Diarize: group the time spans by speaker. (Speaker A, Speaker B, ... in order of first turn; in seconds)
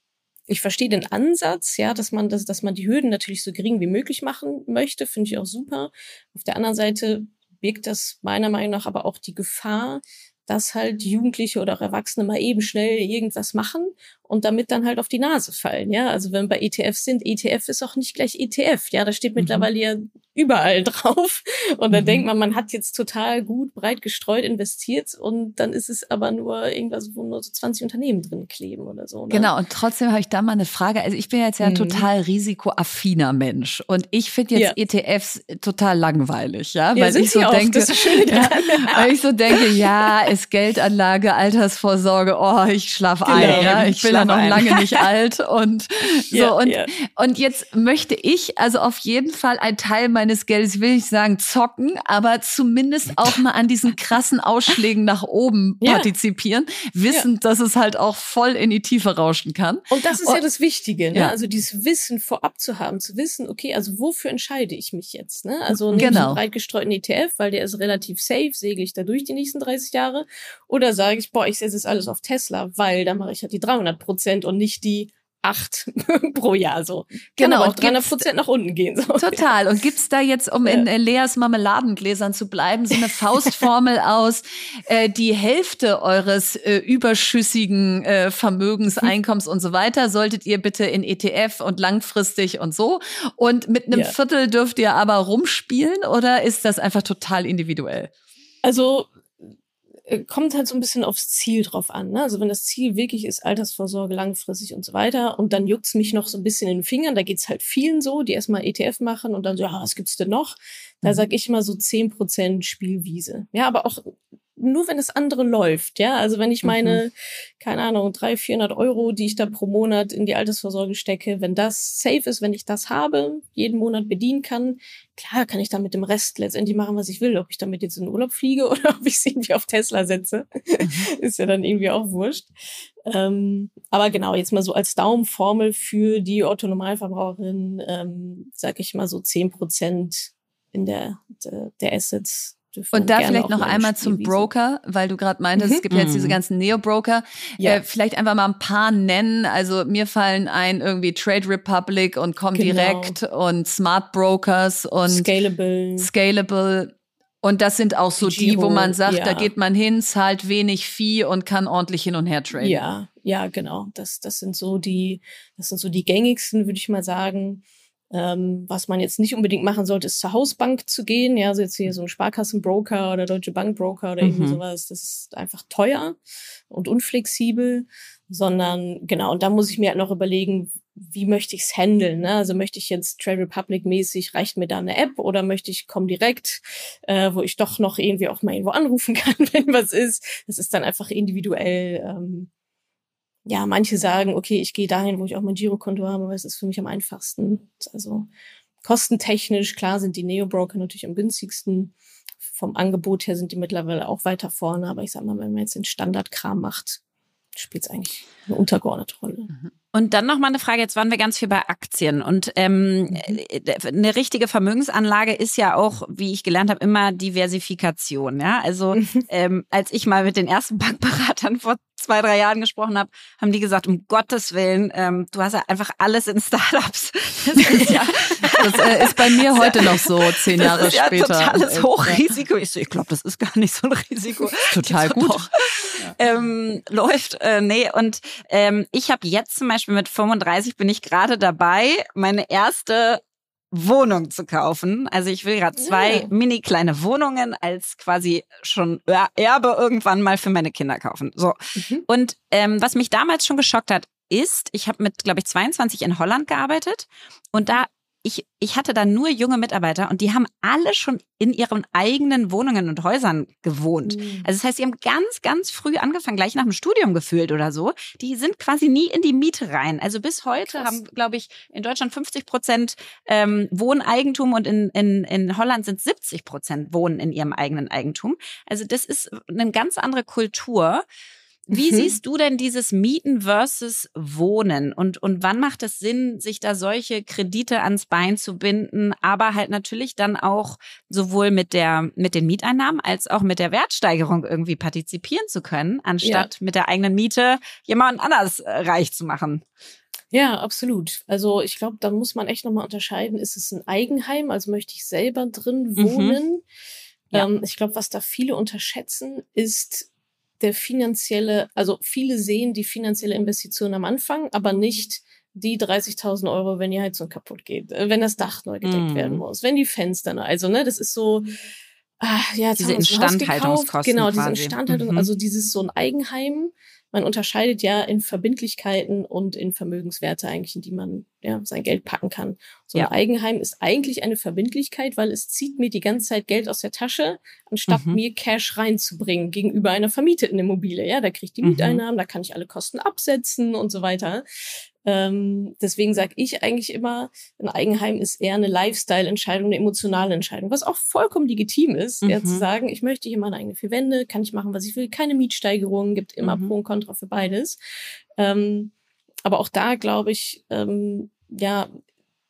Speaker A: 0.5-29.5, 31.6-32.0, 37.0-39.1, 43.3-43.8, 46.3-46.9, 55.8-56.1, 59.9-79.5, 93.9-94.2, 98.6-99.1, 100.1-132.5, 133.0-144.5, 145.6-145.8, 152.5-153.2, 155.1-156.1, 158.2-159.5, 162.6-176.2, 176.7-192.5, 193.4-198.3, 198.8-207.0, 207.5-209.5, 218.9-219.2, 245.8-246.3, 251.8-252.0, 264.1-264.5, 270.6-271.0, 281.7-282.1, 296.2-296.5, 300.3-306.6, 307.3-310.1, 310.6-321.5, 322.2-344.4, 345.0-357.8, 358.4-358.9, 359.4-361.9
Speaker B: 29.3-60.4, 65.9-66.4, 77.4-78.3, 79.2-98.1, 130.8-131.1, 142.9-155.3, 156.0-162.8, 227.8-231.9, 234.7-235.5
Speaker C: 43.3-44.8, 116.6-117.0, 145.9-146.4, 174.2-174.6, 209.9-281.0, 281.7-299.6, 306.0-306.4, 318.8-319.4, 322.8-325.3, 337.9-338.2, 341.6-342.0, 352.2-352.6, 356.4-356.7